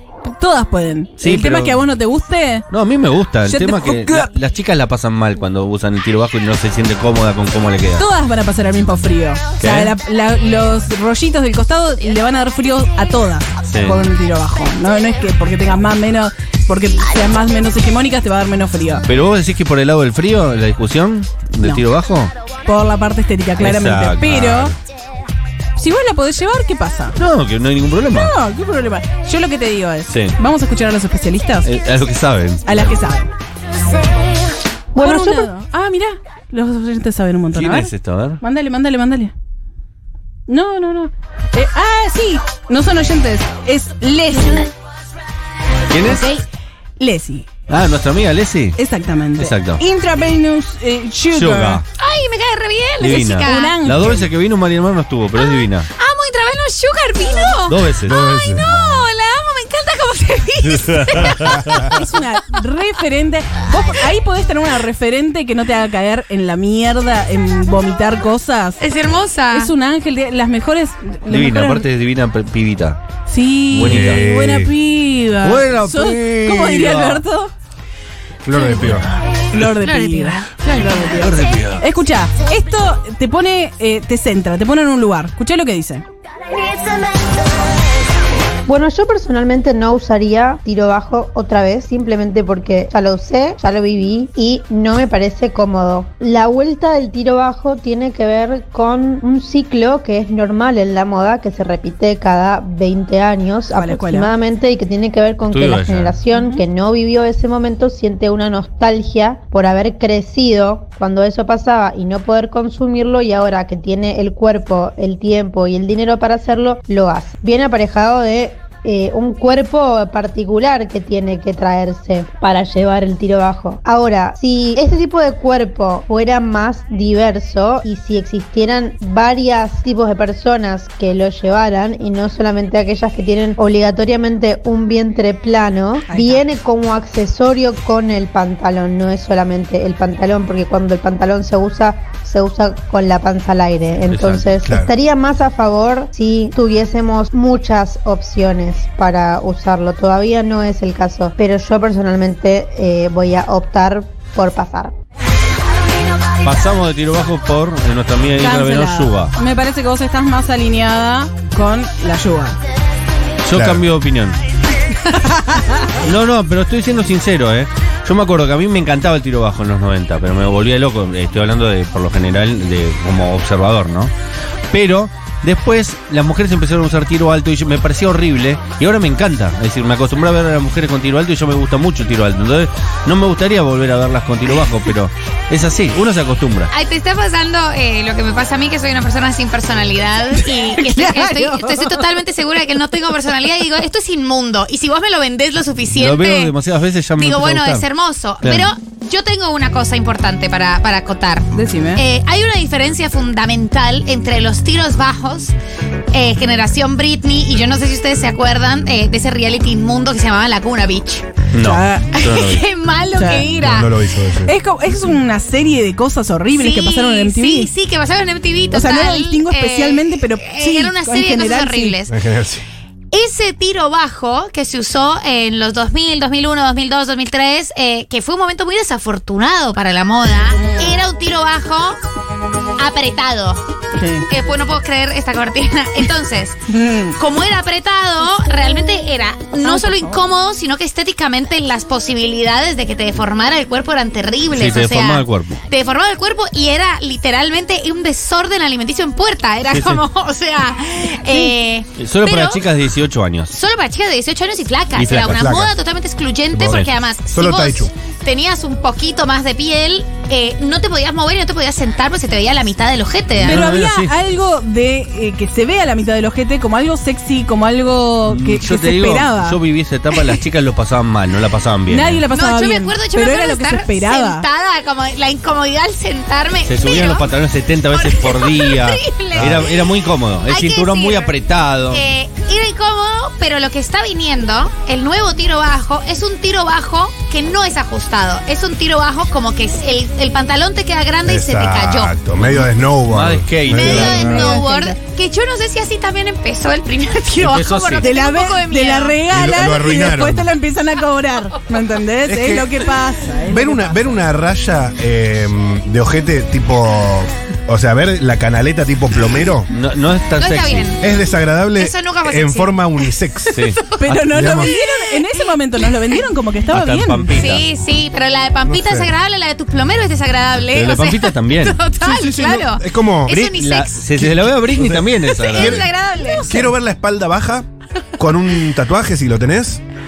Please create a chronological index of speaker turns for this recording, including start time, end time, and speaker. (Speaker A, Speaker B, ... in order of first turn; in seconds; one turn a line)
Speaker A: 0.2-2.6
Speaker B: 1.2-1.8
Speaker B: 2.7-8.0
Speaker A: 3.4-4.3
Speaker A: 7.9-19.1
Speaker B: 9.6-9.9
Speaker B: 13.7-14.0
Speaker B: 19.1-22.3
Speaker A: 22.6-24.8
Speaker B: 23.6-24.8
Speaker A: 25.8-27.2
Speaker B: 27.2-28.3
Speaker A: 28.1-31.7
Speaker B: 30.1-30.3
Speaker B: 31.6-33.0
Speaker A: 32.6-33.3
Speaker C: 34.9-35.5
Speaker A: 35.0-39.3
Speaker B: 37.5-38.4
Speaker A: 40.5-44.7
Speaker B: 45.9-46.3
Speaker A: 46.0-46.4
Speaker A: 47.0-47.5
Speaker B: 47.7-48.8
Speaker A: 48.8-51.8
Speaker B: 49.4-49.8
Speaker B: 51.3-51.8
Speaker D: 52.0-53.8
Speaker B: 53.0-55.9
Speaker A: 53.3-54.3
Speaker D: 56.0-62.0
Speaker B: 57.7-58.2
Speaker E: 58.1-58.6
Speaker B: 60.9-61.8
Speaker A: 61.9-68.8
Speaker D: 68.8-69.7
Speaker A: 69.5-71.9
Speaker B: 71.3-73.0
Speaker A: 73.3-77.5
Speaker B: 73.7-74.1
Speaker E: 73.8-74.7
Speaker B: 75.4-77.2
Speaker E: 78.5-79.0
Speaker A: 79.5-86.0
Speaker D: 79.8-81.0
Speaker B: 81.2-81.8
Speaker C: 88.7-154.9
Speaker A: 103.7-104.3
Speaker B: 105.4-106.2
Speaker A: 106.3-106.6
Speaker A: 136.1-136.4
Speaker B: 144.1-144.7
Speaker B: 156.4-159.3
Speaker A: 158.4-162.6
Speaker B: 163.4-164.4
Speaker A: 165.2-165.7
Speaker B: 166.0-174.1
Speaker B: 174.7-186.7
Speaker D: 186.7-196.5
Speaker A: 190.7-192.0
Speaker B: 195.9-197.9
Speaker D: 197.2-205.5
Speaker B: 198.4-198.7
Speaker A: 201.5-202.0
Speaker D: 206.1-211.3
Speaker B: 211.5-212.6
Speaker A: 211.6-212.2
Speaker D: 212.1-214.0
Speaker A: 213.1-213.5
Speaker E: 213.6-214.5
Speaker A: 214.4-217.7
Speaker D: 216.6-222.2
Speaker A: 218.7-222.0
Speaker E: 222.1-222.6
Speaker D: 223.1-232.0
Speaker D: 232.8-233.6
Speaker A: 233.9-234.3
Speaker D: 234.3-236.6
Speaker A: 236.7-237.2
Speaker D: 237.1-252.7
Speaker A: 239.6-240.2
Speaker B: 244.5-245.6
Speaker B: 249.7-250.1
Speaker A: 251.3-251.6
Speaker B: 252.0-253.5
Speaker D: 253.5-263.6
Speaker B: 254.9-255.8
Speaker E: 255.3-255.7
Speaker E: 256.5-257.9
Speaker B: 263.4-264.1
Speaker A: 263.4-269.6
Speaker B: 268.3-272.2
Speaker A: 271.9-274.4
Speaker D: 272.3-277.3
Speaker B: 276.6-282.0
Speaker D: 277.9-281.4
Speaker D: 281.9-292.2
Speaker E: 291.2-294.5
Speaker B: 292.3-294.4
Speaker D: 293.7-299.2
Speaker A: 293.8-294.9
Speaker B: 297.4-298.1
Speaker A: 298.0-304.2
Speaker E: 299.3-300.5
Speaker E: 302.3-302.7
Speaker E: 303.5-309.7
Speaker B: 309.7-310.9
Speaker D: 310.4-311.0
Speaker E: 311.0-313.5
Speaker D: 311.8-314.9
Speaker B: 313.5-313.8
Speaker A: 314.0-317.4
Speaker E: 314.1-314.7
Speaker B: 316.7-317.7
Speaker D: 317.3-326.7
Speaker E: 318.7-319.1
Speaker B: 320.7-321.8
Speaker E: 322.0-323.4
Speaker B: 323.3-325.8
Speaker E: 324.1-325.9
Speaker E: 326.4-327.6
Speaker E: 328.2-329.8